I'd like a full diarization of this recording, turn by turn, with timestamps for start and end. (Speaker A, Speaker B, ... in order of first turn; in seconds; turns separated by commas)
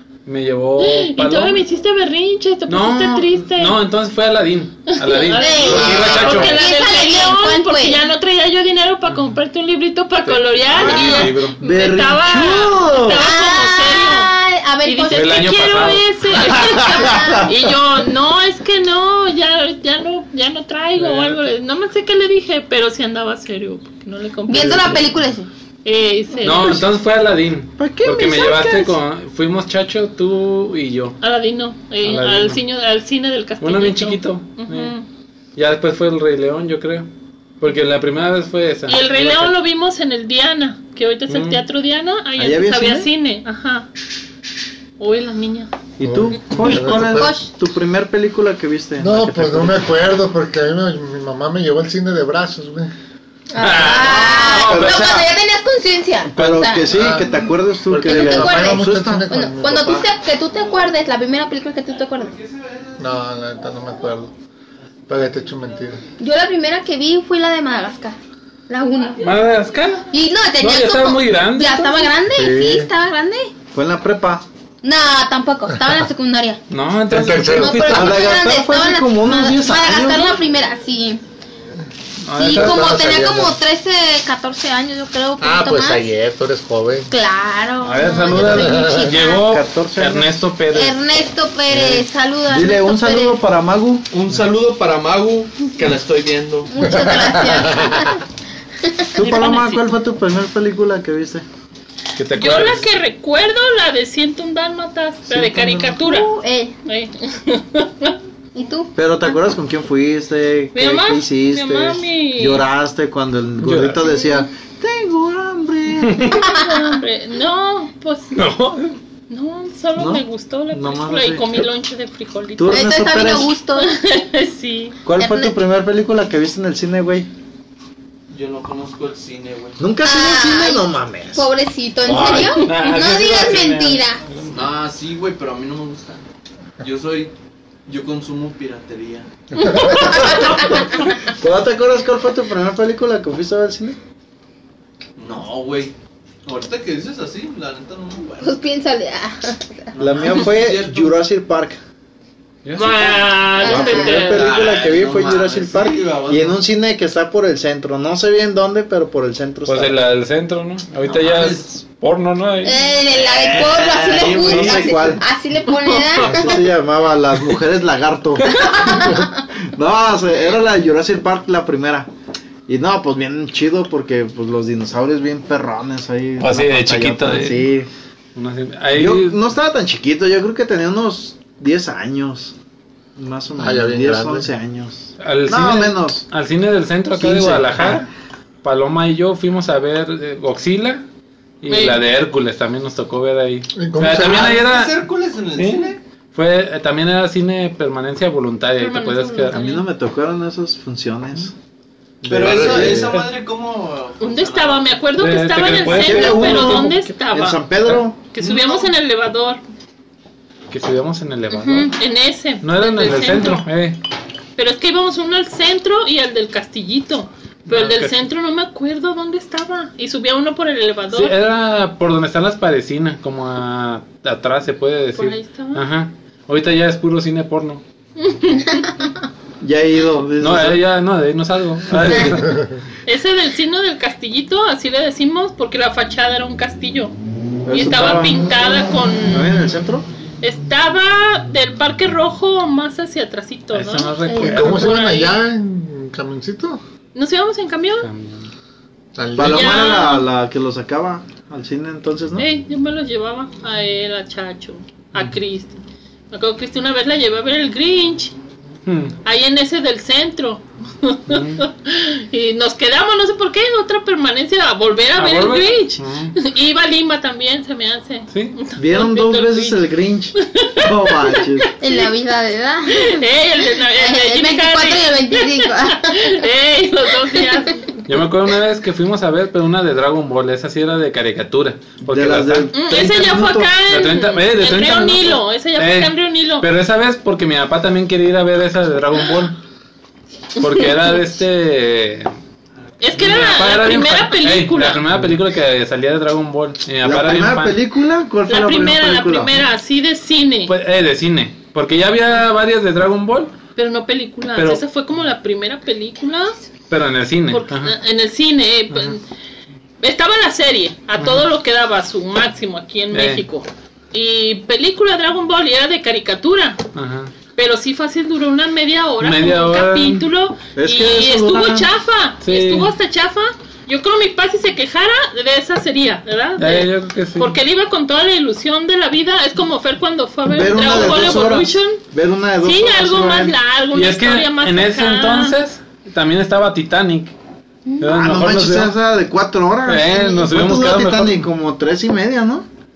Speaker A: 0.3-1.6, Speaker B: 0.8-3.8, Speaker A: 2.7-6.6, Speaker B: 4.9-25.1, Speaker C: 5.3-8.1, Speaker A: 10.2-11.6, Speaker D: 10.7-13.2, Speaker C: 13.1-15.8, Speaker A: 15.1-16.1, Speaker D: 16.5-17.5, Speaker C: 16.6-17.5, Speaker A: 21.0-21.4, Speaker C: 24.5-25.5, Speaker B: 25.9-26.8, Speaker A: 26.4-31.2, Speaker D: 27.8-28.9, Speaker B: 31.2-35.0, Speaker A: 32.0-32.6, Speaker A: 33.6-34.9, Speaker A: 35.6-37.1, Speaker A: 37.6-39.6, Speaker B: 38.9-43.9, Speaker A: 41.3-41.6, Speaker D: 42.4-43.1, Speaker B: 45.0-45.7, Speaker D: 46.0-49.9, Speaker E: 46.0-47.3, Speaker C: 46.7-47.5, Speaker E: 49.0-52.9, Speaker C: 53.5-57.3, Speaker A: 53.6-55.0, Speaker D: 53.8-55.3, Speaker D: 56.3-59.3, Speaker E: 56.9-60.1, Speaker C: 57.9-62.4, Speaker E: 63.0-64.3, Speaker E: 65.1-66.0, Speaker C: 66.2-68.2, Speaker C: 68.7-69.3, Speaker A: 69.2-70.0, Speaker C: 70.1-73.5, Speaker A: 70.6-72.1, Speaker E: 72.3-72.9, Speaker D: 73.7-74.5, Speaker C: 74.8-76.6, Speaker A: 76.7-78.1, Speaker E: 77.1-78.2, Speaker C: 77.5-81.2, Speaker D: 77.9-80.4, Speaker A: 82.3-83.0, Speaker C: 82.4-86.0, Speaker E: 82.4-83.6, Speaker E: 85.4-87.1, Speaker C: 87.1-89.4, Speaker D: 87.9-88.8, Speaker A: 87.9-91.0, Speaker E: 88.5-89.1, Speaker D: 89.3-90.3, Speaker C: 90.7-93.4, Speaker D: 91.7-94.1, Speaker F: 94.1-96.7, Speaker C: 96.7-98.2, Speaker E: 96.8-98.2, Speaker D: 99.2-101.5, Speaker B: 99.2-99.8, Speaker A: 102.2-102.9, Speaker B: 102.4-106.3, Speaker D: 105.3-105.9, Speaker C: 105.9-106.7, Speaker B: 106.9-108.2, Speaker C: 108.5-109.4, Speaker D: 109.0-116.4, Speaker B: 110.7-112.6, Speaker A: 113.6-114.0, Speaker B: 116.4-118.4, Speaker A: 118.3-119.0, Speaker B: 119.3-123.0, Speaker D: 120.0-121.6, Speaker D: 122.6-123.6, Speaker C: 122.7-124.0, Speaker B: 123.8-125.0, Speaker D: 125.0-127.3, Speaker C: 125.2-125.6, Speaker F: 128.3-129.8, Speaker D: 129.8-131.5, Speaker C: 130.0-134.2, Speaker A: 132.1-134.5, Speaker F: 134.5-136.2, Speaker F: 136.8-137.3, Speaker F: 137.9-139.3, Speaker B: 139.7-140.6, Speaker C: 139.8-140.5, Speaker D: 140.2-144.0, Speaker F: 145.2-145.9, Speaker F: 146.4-148.6, Speaker C: 148.4-149.9, Speaker F: 150.0-151.2, Speaker D: 150.0-151.8, Speaker A: 152.7-153.4, Speaker B: 152.8-154.5, Speaker C: 153.6-154.3, Speaker D: 153.6-160.0, Speaker F: 154.2-156.7, Speaker A: 159.7-162.8, Speaker F: 161.1-161.8, Speaker C: 162.6-166.6, Speaker F: 163.1-165.2, Speaker D: 164.3-165.2, Speaker A: 164.5-164.7, Speaker D: 166.3-172.1, Speaker C: 168.5-169.3, Speaker D: 172.7-177.9, Speaker A: 176.4-177.7, Speaker A: 178.3-179.4, Speaker D: 178.9-182.5, Speaker D: 183.2-186.2, Speaker E: 183.6-184.5, Speaker A: 185.2-188.1, Speaker D: 187.2-188.1, Speaker A: 188.6-191.0, Speaker A: 191.6-199.6, Speaker B: 191.7-192.0, Speaker E: 193.8-194.6, Speaker F: 194.2-196.0, Speaker B: 198.8-199.9, Speaker D: 199.5-201.5, Speaker D: 202.2-203.3, Speaker F: 202.3-205.0, Speaker E: 202.3-203.1, Speaker A: 202.9-203.2, Speaker B: 204.2-207.6, Speaker A: 205.2-207.0, Speaker D: 205.9-208.2, Speaker A: 207.8-208.5, Speaker B: 208.3-209.6, Speaker A: 210.7-211.9, Speaker C: 211.5-211.9, Speaker B: 212.0-213.7, Speaker A: 212.6-214.0, Speaker B: 214.6-221.3, Speaker A: 217.7-218.2, Speaker A: 221.1-227.8, Speaker B: 225.2-225.8, Speaker B: 228.2-229.0, Speaker D: 229.6-230.8, Speaker A: 230.4-232.7, Speaker C: 232.1-232.4, Speaker B: 233.1-237.1, Speaker D: 237.7-238.5, Speaker B: 237.7-239.6, Speaker D: 239.3-240.1, Speaker B: 240.4-245.4, Speaker A: 243.7-244.9, Speaker C: 244.3-244.7, Speaker E: 244.4-246.8, Speaker B: 247.1-248.1, Speaker A: 248.0-248.5, Speaker E: 249.2-250.0, Speaker D: 249.4-252.5, Speaker B: 249.4-250.3, Speaker B: 252.4-258.3, Speaker A: 258.9-259.1, Speaker B: 259.2-269.9, Speaker A: 261.3-261.6, Speaker A: 265.2-266.4, Speaker A: 268.3-268.6, Speaker D: 268.8-271.7, Speaker B: 270.4-271.4, Speaker C: 271.8-273.2, Speaker B: 272.9-278.0, Speaker C: 273.9-276.4, Speaker A: 278.1-282.7, Speaker D: 282.0-283.7, Speaker B: 282.7-286.7, Speaker A: 283.9-289.6, Speaker A: 290.6-292.3, Speaker B: 293.0-295.0, Speaker A: 293.2-297.8, Speaker D: 297.0-299.6, Speaker B: 298.5-300.7, Speaker A: 300.7-303.6, Speaker B: 303.8-306.6, Speaker A: 304.6-304.8, Speaker A: 306.9-308.0, Speaker B: 307.5-309.2, Speaker A: 308.9-309.2, Speaker B: 310.0-316.8, Speaker A: 311.2-311.5, Speaker A: 313.1-313.4, Speaker A: 316.9-317.3, Speaker B: 317.6-332.0, Speaker A: 319.2-320.3, Speaker D: 320.8-321.9, Speaker A: 322.4-322.9, Speaker A: 326.6-327.6, Speaker D: 330.5-333.6, Speaker B: 332.6-335.6, Speaker A: 333.9-337.4, Speaker A: 338.0-338.9, Speaker D: 338.1-342.7, Speaker A: 339.9-341.5